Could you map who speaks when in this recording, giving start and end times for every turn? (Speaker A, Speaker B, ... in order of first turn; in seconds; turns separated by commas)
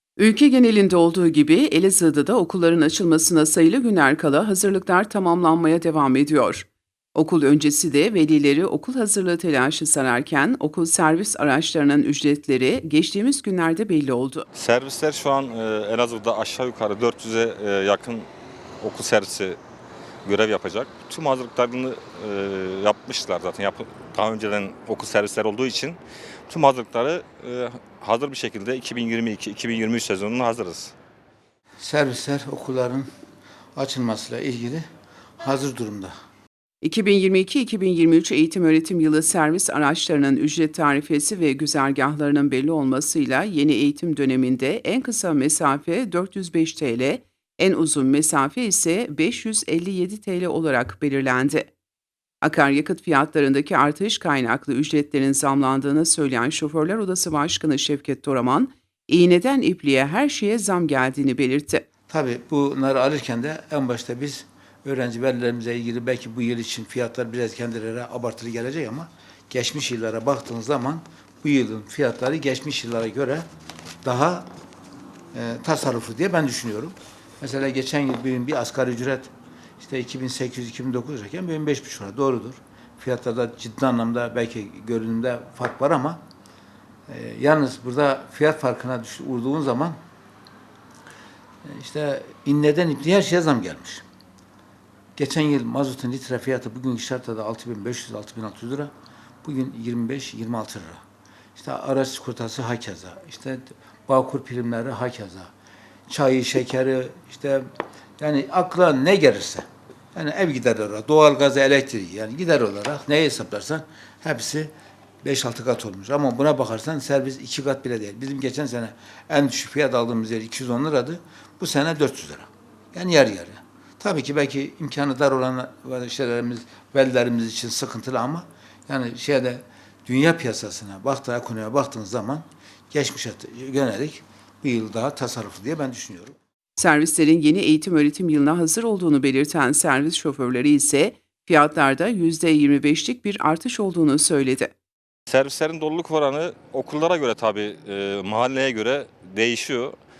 Speaker A: 0.2-14.5, Speaker B: 14.6-18.3, Speaker B: 18.8-19.6, Speaker B: 20.2-30.9, Speaker C: 31.8-33.1, Speaker C: 33.8-34.8, Speaker C: 35.4-36.1, Speaker A: 36.8-51.7, Speaker A: 52.4-61.9, Speaker C: 62.1-73.5, Speaker C: 74.0-74.5, Speaker C: 75.3-86.2, Speaker C: 87.1-90.0, Speaker C: 91.7-94.0, Speaker C: 95.2-98.9, Speaker C: 99.4-101.0, Speaker C: 101.6-105.5, Speaker C: 106.1-107.6, Speaker C: 108.2-114.7, Speaker C: 115.2-136.4, Speaker A: 136.8-144.7, Speaker B: 145.3-149.9